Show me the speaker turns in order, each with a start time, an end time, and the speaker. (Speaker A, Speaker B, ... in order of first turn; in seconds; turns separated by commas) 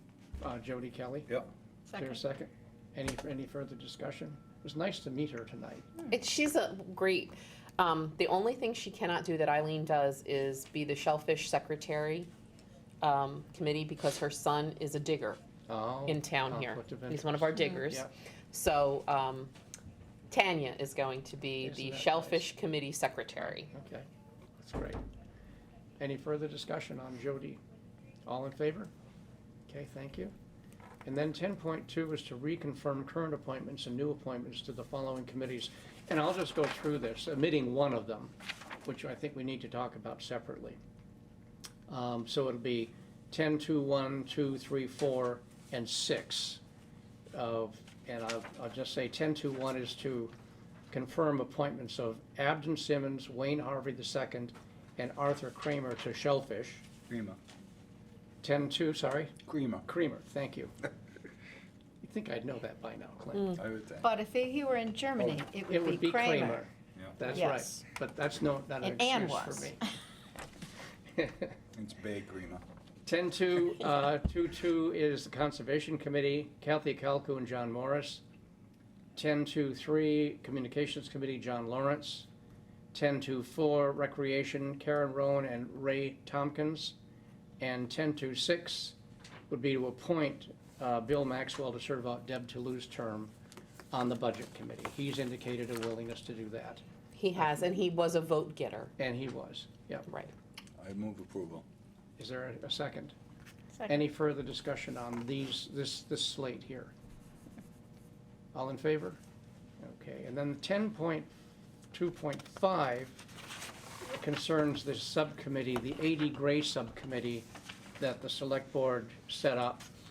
Speaker A: 0.4-1.3, Speaker A: 1.9-6.0, Speaker B: 6.1-12.3, Speaker B: 13.0-15.4, Speaker A: 15.7-18.1, Speaker B: 16.1-19.5, Speaker B: 20.3-23.7, Speaker A: 21.6-22.4, Speaker A: 23.6-24.1, Speaker A: 24.6-25.0, Speaker A: 26.0-27.6, Speaker A: 28.3-28.9, Speaker A: 29.7-30.3, Speaker A: 31.0-38.3, Speaker A: 38.8-40.8, Speaker A: 41.9-46.6, Speaker A: 47.3-50.3, Speaker A: 50.9-56.8, Speaker C: 57.1-57.4, Speaker A: 58.4-60.7, Speaker C: 59.5-59.9, Speaker A: 62.0-63.6, Speaker C: 63.5-64.1, Speaker D: 64.0-66.6, Speaker A: 65.7-69.8, Speaker C: 66.9-67.2, Speaker D: 67.2-67.8, Speaker D: 68.8-69.8, Speaker A: 71.2-71.5, Speaker C: 71.7-72.6, Speaker A: 73.0-78.2, Speaker A: 79.2-82.3, Speaker A: 82.9-87.0, Speaker A: 87.6-89.0, Speaker A: 89.5-93.3, Speaker A: 93.9-96.8, Speaker B: 97.1-98.9, Speaker A: 99.0-100.1, Speaker B: 100.1-100.3, Speaker C: 100.8-101.6, Speaker A: 102.2-103.1, Speaker A: 103.8-106.9, Speaker A: 108.5-109.2, Speaker A: 109.8-111.4, Speaker A: 111.9-113.2, Speaker A: 114.0-117.5, Speaker A: 118.0-119.9